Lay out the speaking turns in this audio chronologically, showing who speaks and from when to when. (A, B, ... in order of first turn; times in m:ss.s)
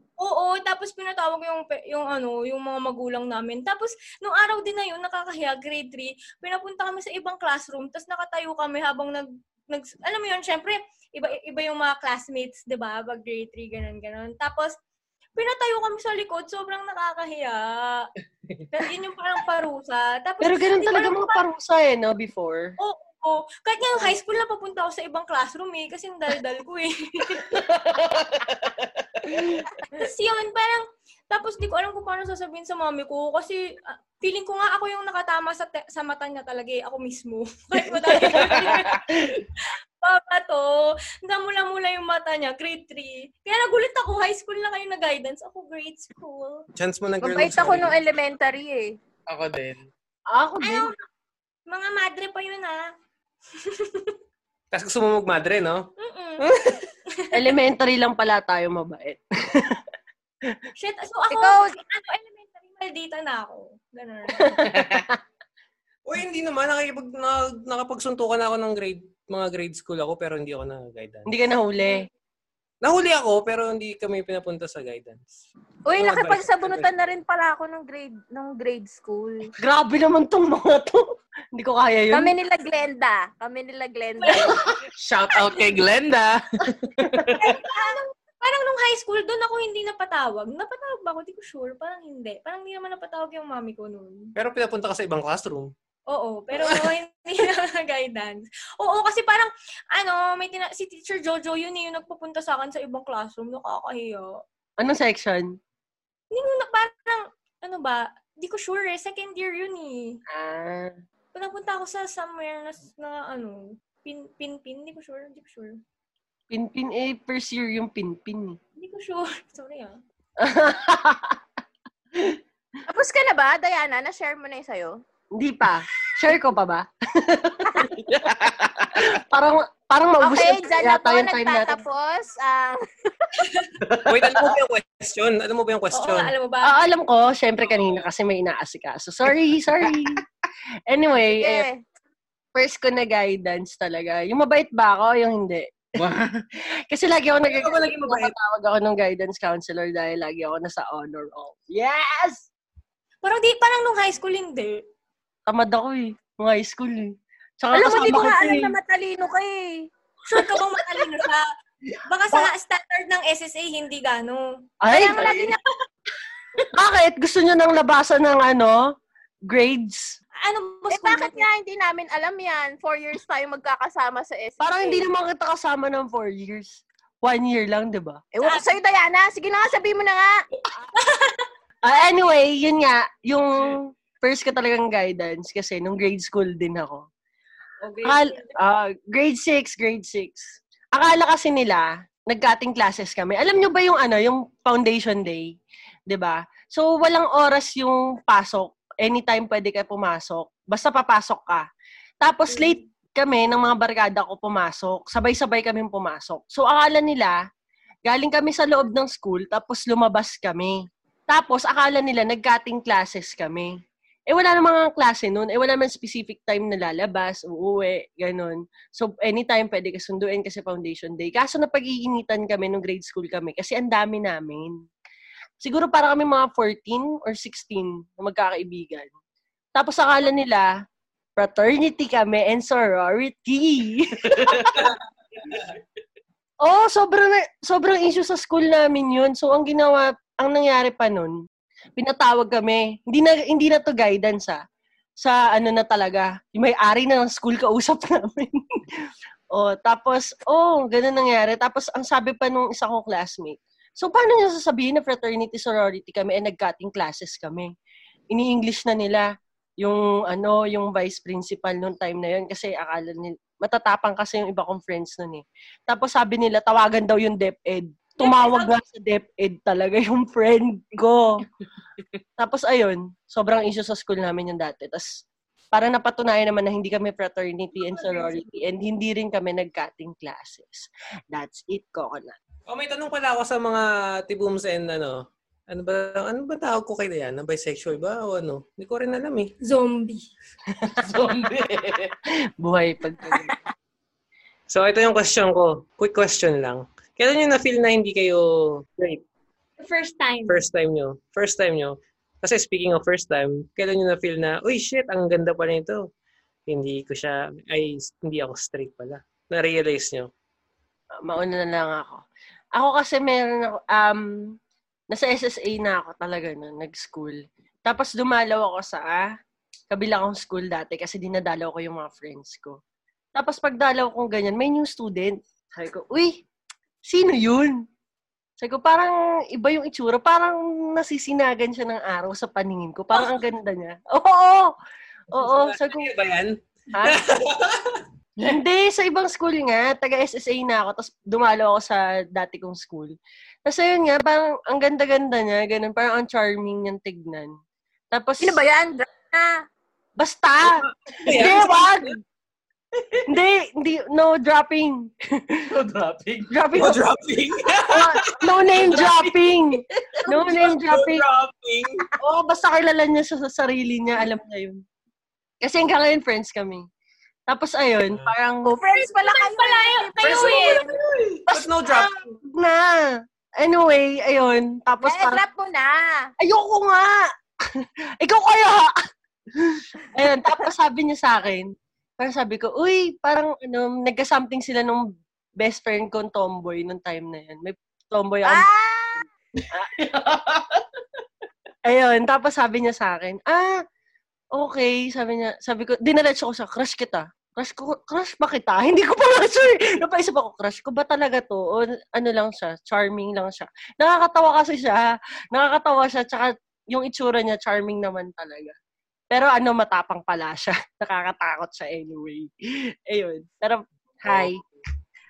0:00.2-0:14.8 A
0:15.4-0:18.1 A
0:18.7-0:21.4 A
0:20.4-0:22.8 B
0:22.8-0:27.5 A
0:29.3-0:29.6 B
0:29.9-0:46.6 A
0:38.1-0:38.7 B
0:46.8-0:47.9 C
0:47.2-0:49.0 D
0:49.3-0:49.8 E
0:50.3-0:50.9 B
0:50.6-0:51.0 A
0:51.7-0:52.9 A
0:53.6-0:54.2 A
0:54.7-0:55.9 C
0:56.0-0:57.5 A
0:57.3-0:59.8 B
1:00.8-1:04.7 A
1:01.3-1:01.8 D
1:04.3-1:05.2 B
1:06.0-1:11.3 C
1:11.3-1:12.1 B
1:12.8-1:15.3 C
1:15.8-1:19.5 D
1:16.0-1:16.9 C
1:19.6-1:22.3 B
1:22.1-1:24.6 D
1:24.2-1:24.7 A
1:24.3-1:24.7 B
1:25.0-1:27.5 E
1:27.4-1:34.3 A
1:34.4-1:35.7 C
1:36.1-1:44.4 A
1:36.5-1:36.9 C
1:44.8-1:45.5 B
1:46.3-1:50.2 A
1:50.3-1:51.0 B
1:51.3-1:55.8 A
1:56.5-1:58.6 B
1:58.8-2:00.0 A
2:00.4-2:01.4 B
2:02.1-2:02.4 B
2:02.9-2:05.0 D
2:05.4-2:07.9 B
2:08.0-2:09.1 E
2:08.9-2:11.8 B
2:10.2-2:12.8 D
2:13.8-2:14.1 E
2:14.0-2:16.3 C
2:15.9-2:16.8 A
2:16.6-2:20.2 B
2:20.9-2:21.7 B
2:21.3-2:21.8 D
2:22.5-2:25.8 B
2:26.0-2:26.4 E
2:26.9-2:32.5 B
2:27.5-2:28.3 C
2:33.2-2:34.8 A
2:35.5-2:38.7 B
2:37.7-2:39.9 D
2:40.2-2:41.5 A
2:40.4-2:41.2 B
2:41.9-2:42.5 B
2:42.1-2:44.5 A
2:44.8-2:45.5 B
2:44.9-2:45.6 D
2:45.0-2:45.6 A
2:46.6-2:48.9 B
2:49.5-2:50.2 B
2:50.4-2:51.4 A
2:50.9-2:55.0 D
2:54.6-2:58.2 B
2:58.3-3:00.4 D
2:58.4-2:58.7 A
3:01.0-3:01.5 A
3:01.8-3:07.0 B
3:07.8-3:08.4 A
3:08.0-3:15.5 B
3:16.1-3:21.6 B
3:22.2-3:27.4 B
3:22.5-3:22.8 A
3:28.0-3:33.8 B
3:34.3-3:44.8 B
3:45.6-3:49.1 B
3:49.8-3:50.7 B
3:51.4-3:54.8 B
3:54.3-3:54.8 E
3:56.6-4:01.3 B
4:02.0-4:04.6 B
4:05.2-4:17.7 B
4:18.3-4:19.3 B
4:19.8-4:31.4 B
4:28.2-4:28.7 A
4:32.4-4:42.4 B
4:37.8-4:38.4 A
4:42.7-4:49.5 C
4:49.6-4:50.3 A
4:50.8-4:51.0 B
4:51.0-4:52.1 E
4:52.6-4:53.6 B
4:54.7-4:59.2 C
4:59.8-5:00.6 A
5:00.5-5:06.0 C
5:06.7-5:10.3 C
5:11.2-5:12.2 B
5:12.7-5:14.3 B
5:15.1-5:19.3 B
5:19.9-5:22.8 B
5:23.3-5:26.4 B
5:27.0-5:27.8 B
5:28.6-5:34.7 B
5:35.3-5:36.1 B
5:35.3-5:38.0 C
5:36.9-5:37.2 B
5:38.4-5:47.5 B
5:48.1-5:48.6 B
5:48.4-5:49.6 D
5:50.2-5:52.2 B
5:51.2-5:52.1 C
5:53.3-5:55.7 B
5:55.7-5:56.5 E
5:56.5-5:57.0 B
5:56.7-5:59.3 C
5:57.9-6:01.2 B
6:00.3-6:01.9 C
6:02.2-6:04.8 B
6:05.6-6:06.8 B
6:07.5-6:08.7 B
6:08.6-6:10.8 D
6:09.0-6:10.9 A
6:10.2-6:12.1 C
6:11.5-6:15.4 B
6:15.0-6:16.3 D
6:16.4-6:18.9 B
6:19.6-6:28.7 B
6:28.4-6:29.2 D
6:29.7-6:30.0 B
6:30.0-6:30.6 E
6:31.8-6:33.8 B
6:34.5-6:48.8 B
6:49.3-6:54.6 B